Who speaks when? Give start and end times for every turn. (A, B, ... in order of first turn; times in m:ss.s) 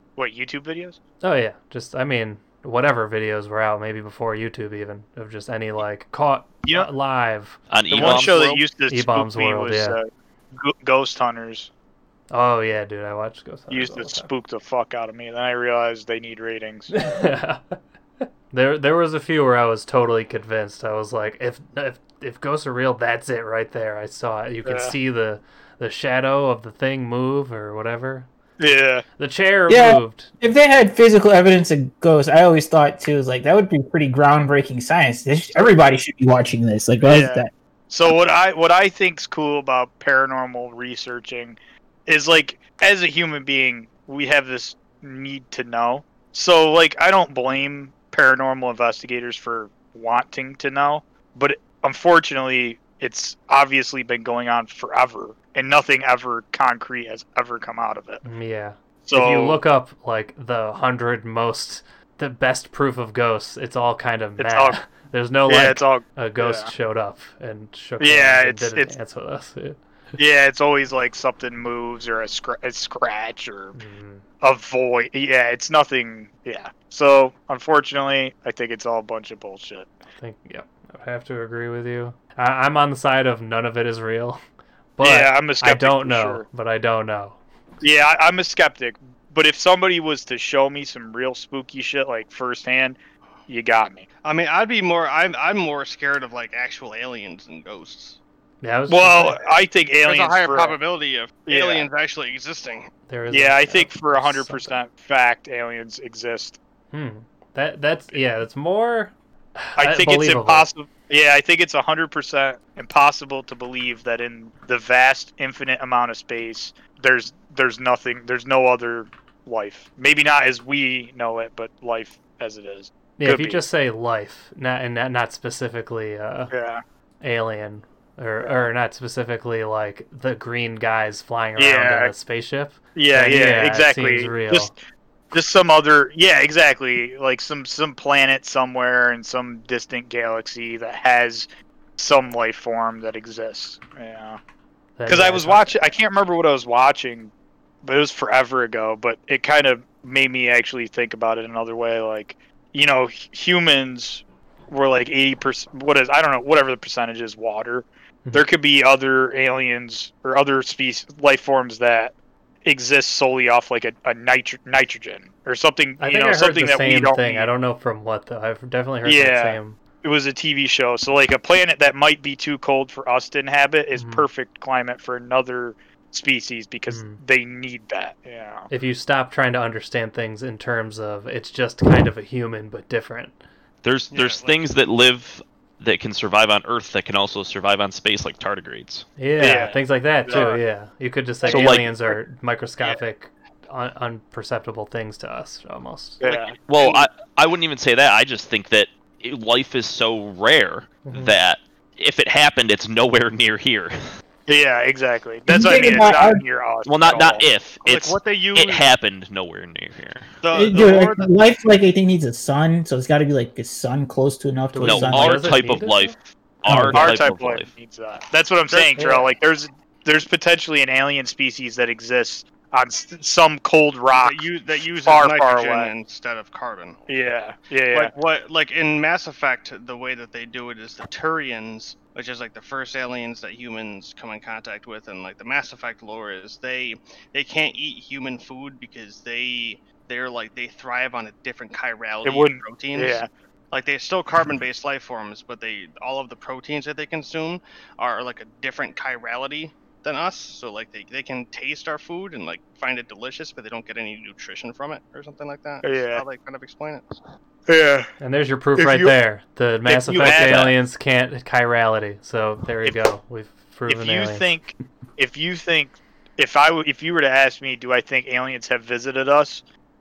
0:00.2-0:01.0 A
0:01.2-0:10.0 B
0:07.7-0:08.6 C
0:07.9-0:11.7 A
0:12.3-0:14.3 B
0:13.7-0:17.0 A
0:16.9-0:17.8 B
0:18.5-0:28.3 B
0:24.6-0:25.0 A
0:28.6-0:29.0 A
0:29.2-0:30.3 B
0:29.7-0:37.5 D
0:37.0-0:58.2 A
0:58.2-1:09.8 B
0:59.0-0:59.6 A
1:04.4-1:04.8 A
1:05.5-1:06.7 A
1:08.0-1:08.9 A
1:10.2-1:13.8 A
1:13.7-1:14.2 B
1:14.4-1:20.0 A
1:20.2-1:24.4 B
1:25.0-1:27.4 B
1:25.0-1:26.4 A
1:27.8-1:33.0 A
1:33.5-1:34.1 A
1:34.2-1:38.2 E
1:38.6-1:39.4 B
1:38.9-1:40.8 A
1:40.0-1:42.9 E
1:41.5-1:41.9 A
1:43.1-1:44.8 B
1:43.3-1:46.6 A
1:46.9-1:50.7 B
1:49.8-2:03.6 A
2:03.2-2:06.5 B
2:06.5-2:06.8 A
2:07.2-2:14.7 B
2:08.4-2:08.7 A
2:11.6-2:12.1 A
2:13.0-2:14.8 A
2:15.3-2:24.4 A
2:25.0-2:25.8 B
2:25.1-2:27.3 A
2:27.8-2:42.1 A
2:42.6-2:47.5 A
2:46.0-2:49.8 B
2:49.0-2:58.7 A
2:54.0-2:54.3 B
2:56.9-2:57.2 B
2:58.7-3:03.4 B
3:03.8-3:09.1 C
3:04.1-3:04.5 E
3:09.2-3:16.2 B
3:09.4-3:10.6 A
3:11.5-3:11.8 A
3:11.5-3:12.0 C
3:16.2-3:17.0 A
3:16.7-3:24.1 C
3:21.0-3:21.4 B
3:24.5-3:27.4 A
3:25.5-3:26.4 D
3:26.9-3:30.3 C
3:27.8-3:28.9 E
3:30.4-3:31.3 E
3:30.5-3:35.6 D
3:34.7-3:36.2 B
3:34.8-3:37.7 C
3:36.7-3:37.0 D
3:36.7-3:37.0 B
3:36.9-3:45.9 A
3:38.7-3:39.1 E
3:39.0-3:39.3 B
3:44.1-3:47.0 E
3:47.1-3:48.1 A
3:47.9-4:17.1 E
4:02.2-4:03.3 A
4:15.8-4:16.2 A
4:17.7-4:18.1 A
4:18.2-4:24.5 B
4:18.8-4:19.2 A
4:19.8-4:20.7 A
4:20.2-4:20.7 E
4:23.9-4:29.6 A